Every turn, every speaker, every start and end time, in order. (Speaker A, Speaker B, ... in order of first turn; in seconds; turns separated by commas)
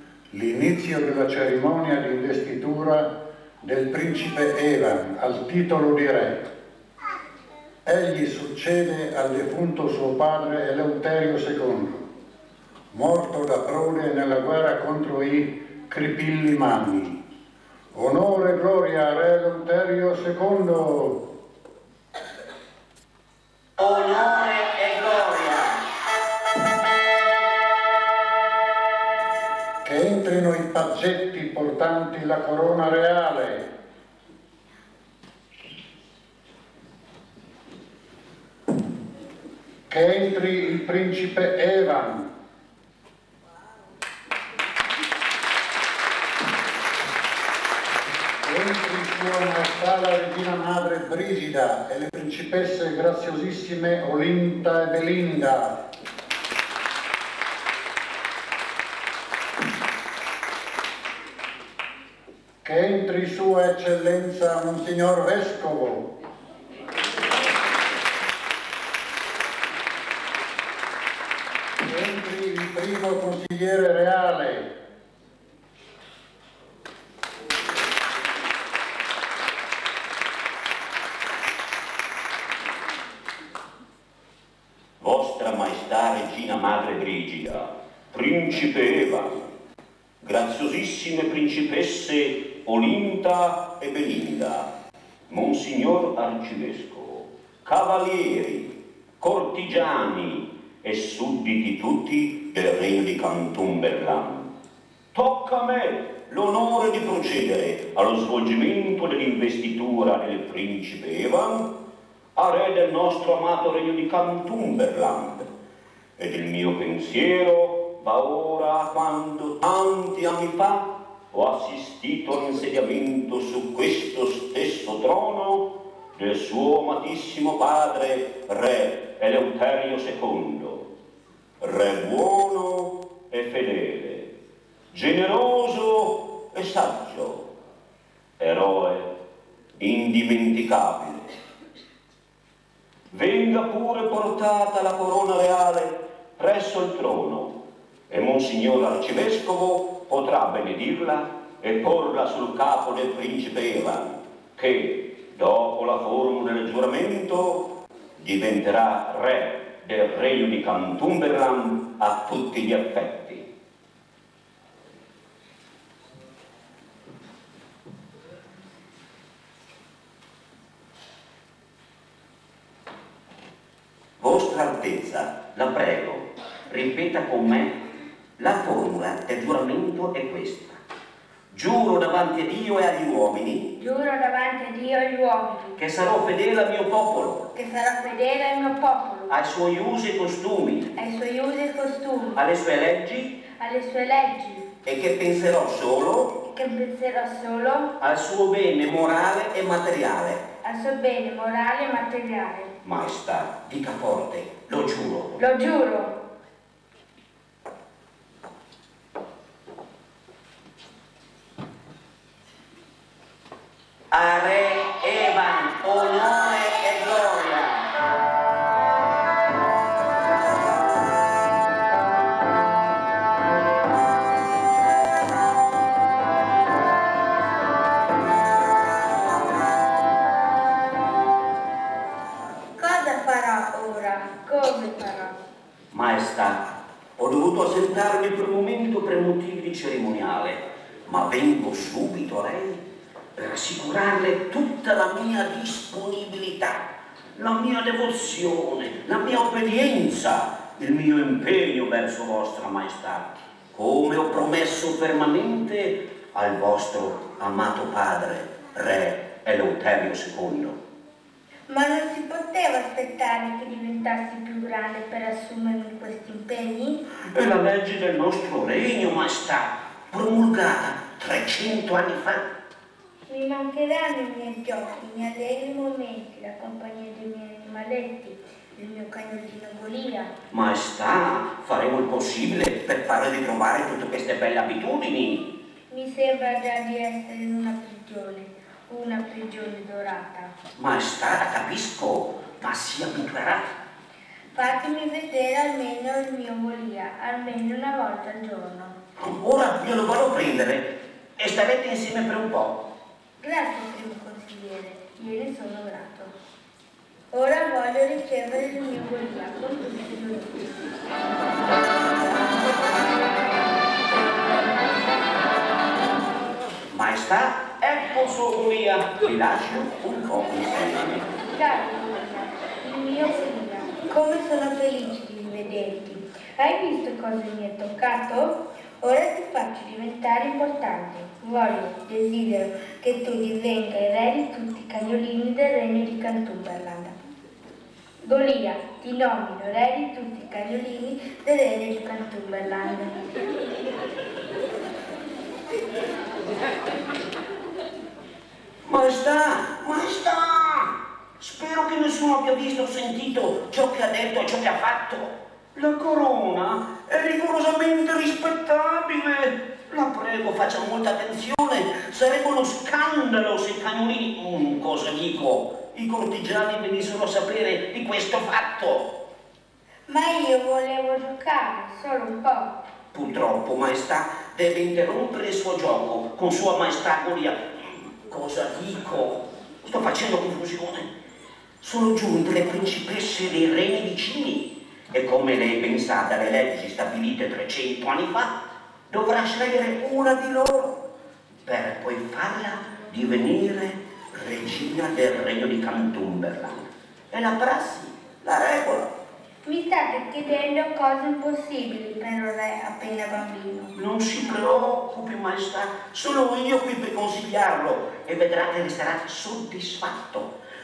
Speaker A: 0.3-3.1, Speaker A: 3.6-6.5, Speaker A: 7.8-12.1, Speaker A: 12.9-17.2, Speaker A: 17.9-21.2, Speaker B: 23.8-25.8, Speaker A: 29.8-33.7, Speaker A: 39.9-42.3, Speaker A: 48.4-55.8, Speaker A: 62.6-66.1, Speaker A: 71.8-74.7, Speaker B: 85.0-89.5, Speaker B: 90.2-94.7, Speaker B: 95.3-104.5, Speaker B: 105.1-111.7, Speaker B: 112.3-115.5, Speaker B: 116.2-130.8, Speaker B: 131.6-134.3, Speaker B: 134.9-137.4, Speaker B: 138.4-139.1, Speaker B: 139.8-141.3, Speaker B: 143.1-147.5, Speaker B: 148.1-163.4, Speaker B: 174.2-177.8, Speaker B: 178.4-180.8, Speaker B: 181.5-183.7, Speaker C: 183.8-185.8, Speaker B: 185.8-187.5, Speaker C: 187.5-189.3, Speaker B: 189.3-190.9, Speaker C: 191.0-192.4, Speaker B: 192.3-193.4, Speaker C: 193.5-194.7, Speaker B: 194.8-196.3, Speaker C: 196.4-197.9, Speaker B: 198.0-200.4, Speaker C: 200.6-202.7, Speaker B: 202.8-205.4, Speaker C: 205.4-206.2, Speaker B: 214.1-217.9, Speaker C: 232.8-235.3, Speaker B: 235.9-236.6, Speaker B: 237.2-242.8, Speaker B: 243.3-260.8, Speaker C: 261.7-267.0, Speaker B: 267.2-272.5, Speaker C: 273.3-280.3, Speaker B: 280.5-285.5, Speaker C: 285.9-290.5, Speaker B: 290.8-293.7, Speaker C: 294.5-299.0, Speaker B: 299.2-302.8, Speaker C: 303.4-306.3, Speaker C: 307.3-310.7, Speaker B: 316.9-321.3, Speaker C: 321.4-337.1, Speaker C: 338.2-343.2, Speaker B: 348.8-369.1, Speaker C: 370.1-372.8, Speaker B: 373.1-381.1, Speaker B: 381.8-388.5, Speaker B: 389.1-391.0, Speaker B: 391.6-399.1, Speaker C: 399.6-403.9, Speaker B: 403.9-410.5